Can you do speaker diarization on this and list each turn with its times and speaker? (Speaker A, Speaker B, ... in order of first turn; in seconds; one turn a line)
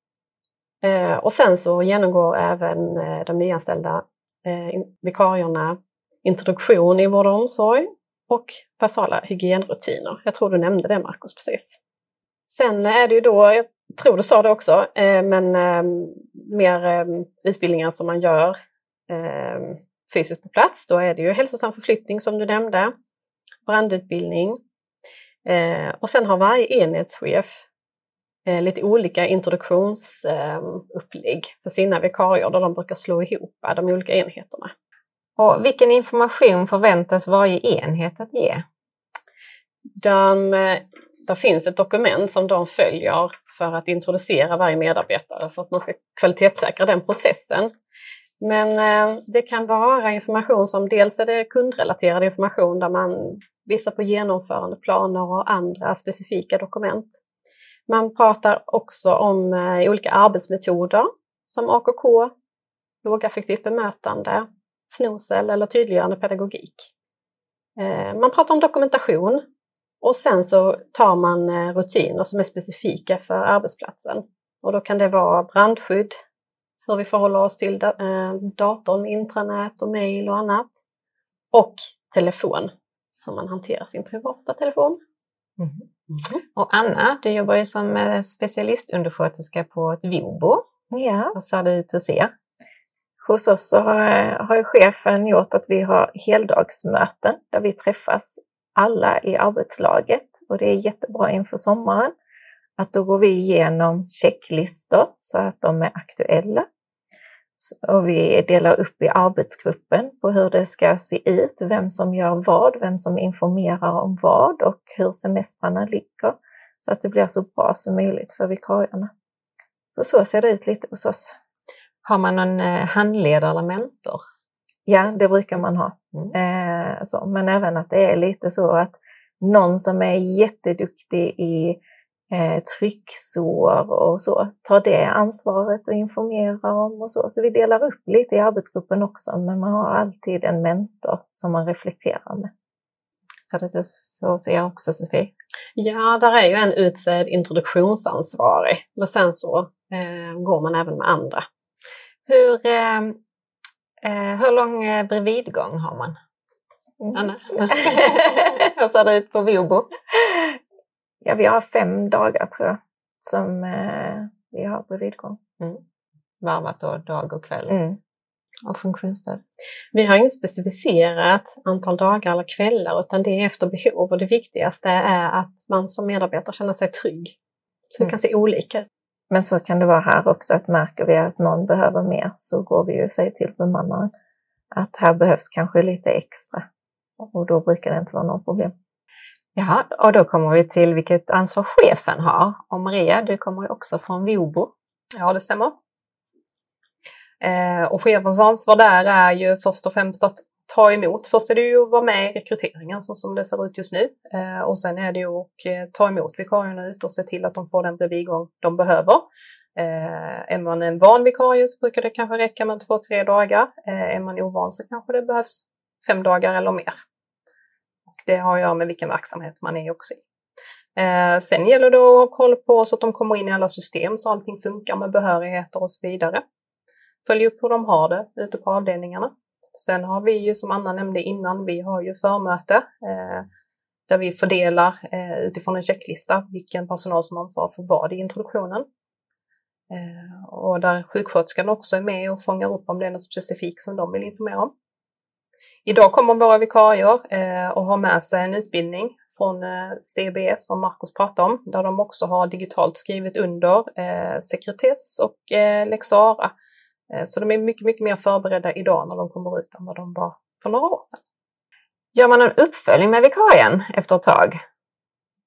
Speaker A: 0.8-11.8
Speaker A: 12.5-18.6
Speaker A: 19.1-22.9
Speaker A: 23.7-24.6
Speaker A: 25.4-27.6
Speaker A: 28.5-34.7
Speaker B: 35.4-38.6
Speaker A: 40.0-47.7
Speaker A: 48.4-57.2
Speaker A: 57.9-62.3
Speaker A: 63.0-66.9
Speaker A: 67.8-69.5
Speaker A: 70.0-76.2
Speaker A: 76.9-80.7
Speaker A: 81.5-82.7
Speaker A: 83.2-85.0
Speaker B: 85.6-85.9
Speaker B: 86.5-90.6
Speaker C: 90.9-91.4
Speaker B: 91.3-92.3
Speaker C: 93.2-102.1
Speaker C: 102.8-106.7
Speaker C: 107.6-119.1
Speaker C: 119.9-121.3
Speaker B: 122.0-124.2
Speaker C: 124.9-131.8
Speaker C: 132.3-142.5
Speaker B: 143.5-145.3
Speaker A: 145.8-151.4
Speaker B: 152.3-153.2
Speaker B: 154.0-156.2
Speaker C: 157.0-157.8
Speaker B: 157.1-159.9
Speaker C: 160.1-160.6
Speaker C: 161.2-165.4
Speaker B: 166.4-167.8
Speaker C: 167.7-168.0
Speaker B: 168.7-169.4
Speaker A: 169.9-177.4
Speaker A: 177.9-178.8
Speaker C: 179.3-184.1
Speaker C: 184.7-186.7
Speaker C: 187.2-188.7
Speaker B: 189.6-194.7
Speaker D: 195.2-195.8
Speaker D: 197.4-217.0
Speaker D: 218.1-220.2
Speaker D: 221.0-226.4
Speaker D: 227.2-233.5
Speaker D: 234.1-238.9
Speaker D: 239.9-244.7
Speaker D: 245.9-256.5
Speaker D: 257.1-261.2
Speaker B: 262.1-264.6